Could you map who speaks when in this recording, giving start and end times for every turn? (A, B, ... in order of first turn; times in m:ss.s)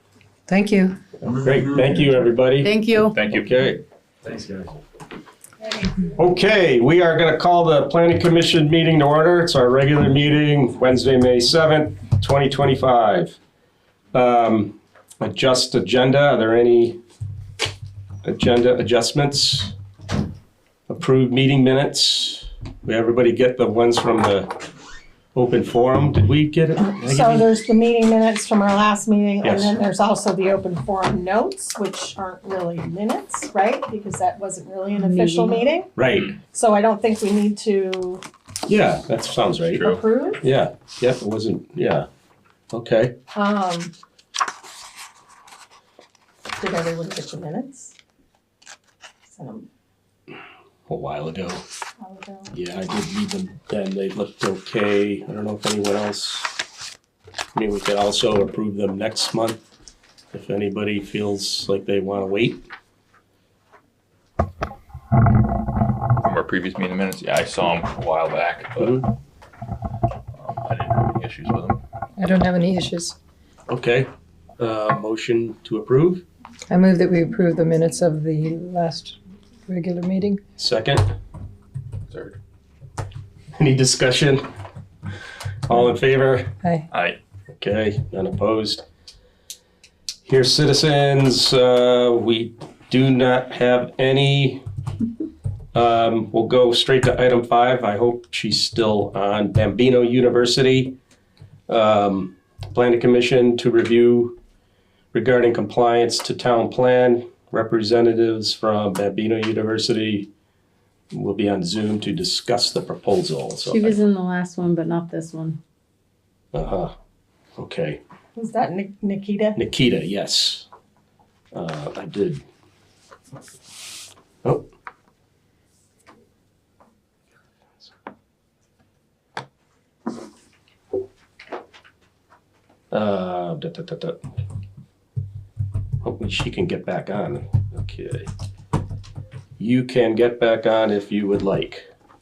0:00.5-0:01.0 A
0:01.2-0:02.8 B
0:02.6-0:03.2 C
0:03.0-0:03.5 D
0:03.3-0:04.6 B
0:06.1-0:13.4 B
0:14.1-0:17.0 B
0:18.2-0:19.7 B
0:20.9-0:24.5 B
0:25.3-0:27.5 B
0:27.0-0:38.2 E
0:29.4-0:29.8 B
0:35.0-0:35.6 C
0:35.9-0:36.3 B
0:38.7-0:42.1 B
0:39.7-0:40.4 E
0:42.7-0:43.1 B
0:43.3-0:43.9 E
0:46.6-0:47.9 E
0:49.3-0:49.7 E
0:50.9-0:51.6 B
0:52.0-0:52.5 E
0:52.5-0:56.6 B
0:57.5-0:59.6 B
1:00.3-1:02.6 B
1:06.2-1:09.0 D
1:08.8-1:09.1 B
1:10.4-1:11.8 D
1:12.2-1:13.2 A
1:13.7-1:16.2 B
1:16.7-1:20.4 A
1:20.6-1:21.1 B
1:22.1-1:22.4 D
1:23.5-1:24.4 B
1:25.7-1:26.5 B
1:27.6-1:28.8 B
1:30.2-1:34.6 B
1:35.7-1:41.0 B
1:41.7-1:44.4 B
1:45.1-1:50.3 B
1:51.1-1:54.0 B
1:53.7-1:55.6 C
1:56.5-1:56.9 B
1:57.6-1:58.0 B
1:58.4-1:59.6 E
1:59.5-2:00.7 B
2:01.5-2:02.4 B
2:04.4-2:04.7 B
2:12.9-2:14.2 B
2:16.0-2:18.3 B
2:19.6-2:21.9 B